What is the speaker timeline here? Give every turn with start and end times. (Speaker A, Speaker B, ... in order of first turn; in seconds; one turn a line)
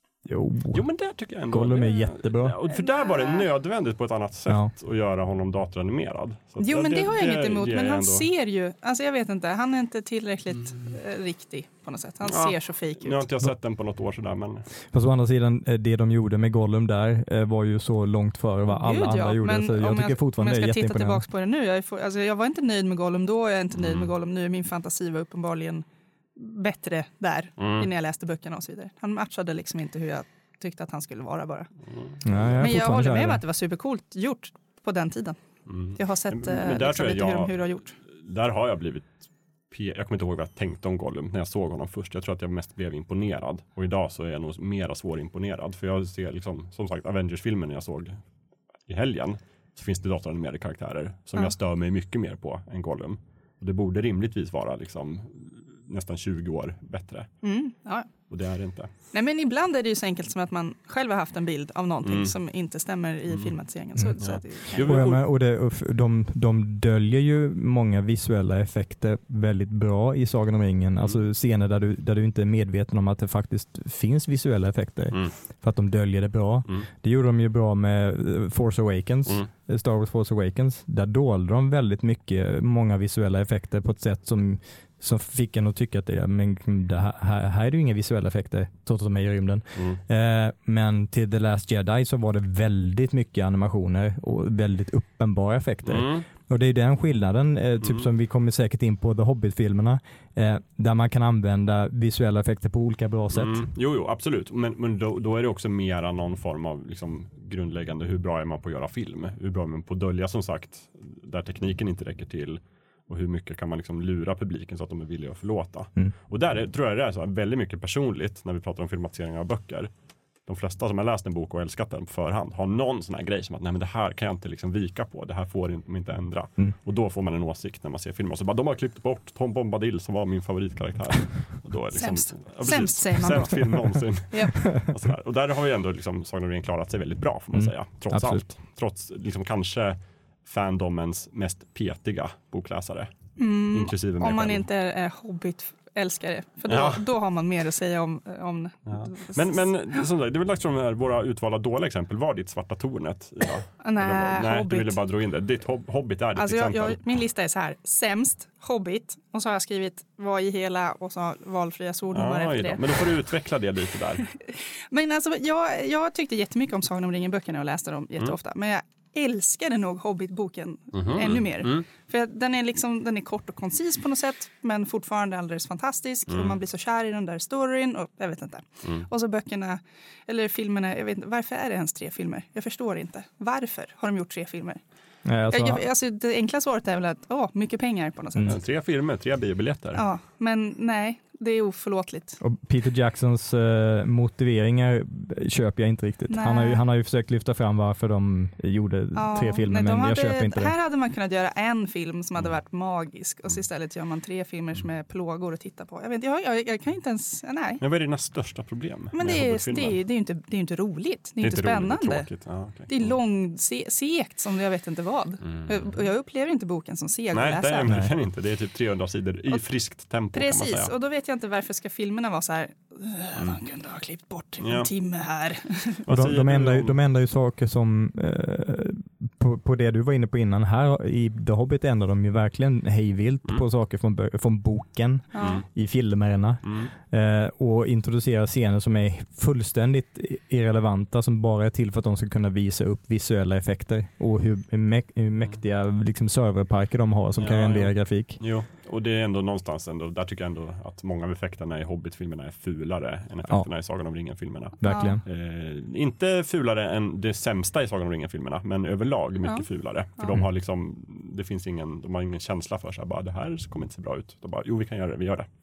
Speaker A: 0.2-0.8
Speaker B: 0.7-8.3
Speaker A: 1.5-2.6
Speaker C: 2.7-3.4
Speaker C: 6.6-13.2
Speaker B: 12.2-14.7
Speaker A: 14.9-21.2
Speaker C: 18.7-25.8
Speaker B: 23.8-24.1
Speaker C: 26.4-31.7
Speaker B: 27.6-27.9
Speaker B: 31.9-32.8
Speaker A: 32.2-33.4
Speaker C: 32.6-35.4
Speaker B: 35.7-48.2
Speaker C: 35.9-37.9
Speaker B: 48.9-57.3
Speaker C: 57.4-58.1
Speaker B: 58.3-58.9
Speaker C: 59.1-65.0
Speaker B: 62.0-62.3
Speaker B: 64.2-65.2
Speaker A: 64.8-103.6
Speaker B: 95.9-96.2
Speaker B: 97.8-98.1
Speaker B: 103.3-119.9
Speaker B: 120.5-143.1
Speaker C: 131.9-134.6
Speaker A: 137.5-138.4
Speaker C: 143.4-149.7
Speaker B: 143.7-144.6
Speaker B: 146.7-147.1
Speaker B: 148.9-157.0
Speaker C: 153.8-155.0
Speaker C: 156.3-163.1
Speaker B: 162.1-164.2
Speaker C: 164.2-184.8
Speaker B: 170.9-171.8
Speaker B: 176.3-176.6
Speaker A: 185.2-185.8
Speaker C: 185.5-188.5
Speaker B: 188.4-190.0
Speaker C: 189.9-192.4
Speaker A: 192.4-200.7
Speaker C: 196.3-196.8
Speaker C: 199.2-207.8
Speaker B: 207.8-210.0
Speaker C: 209.1-212.3
Speaker B: 211.4-213.2
Speaker C: 212.9-217.9
Speaker B: 215.4-216.0
Speaker B: 217.3-220.9
Speaker A: 217.9-218.1
Speaker C: 220.3-226.0
Speaker B: 224.6-224.9
Speaker B: 226.0-227.0
Speaker A: 226.1-248.4
Speaker C: 235.3-235.6
Speaker B: 235.4-235.7
Speaker B: 236.6-236.9
Speaker B: 247.4-265.5
Speaker A: 254.8-255.2
Speaker C: 254.8-255.2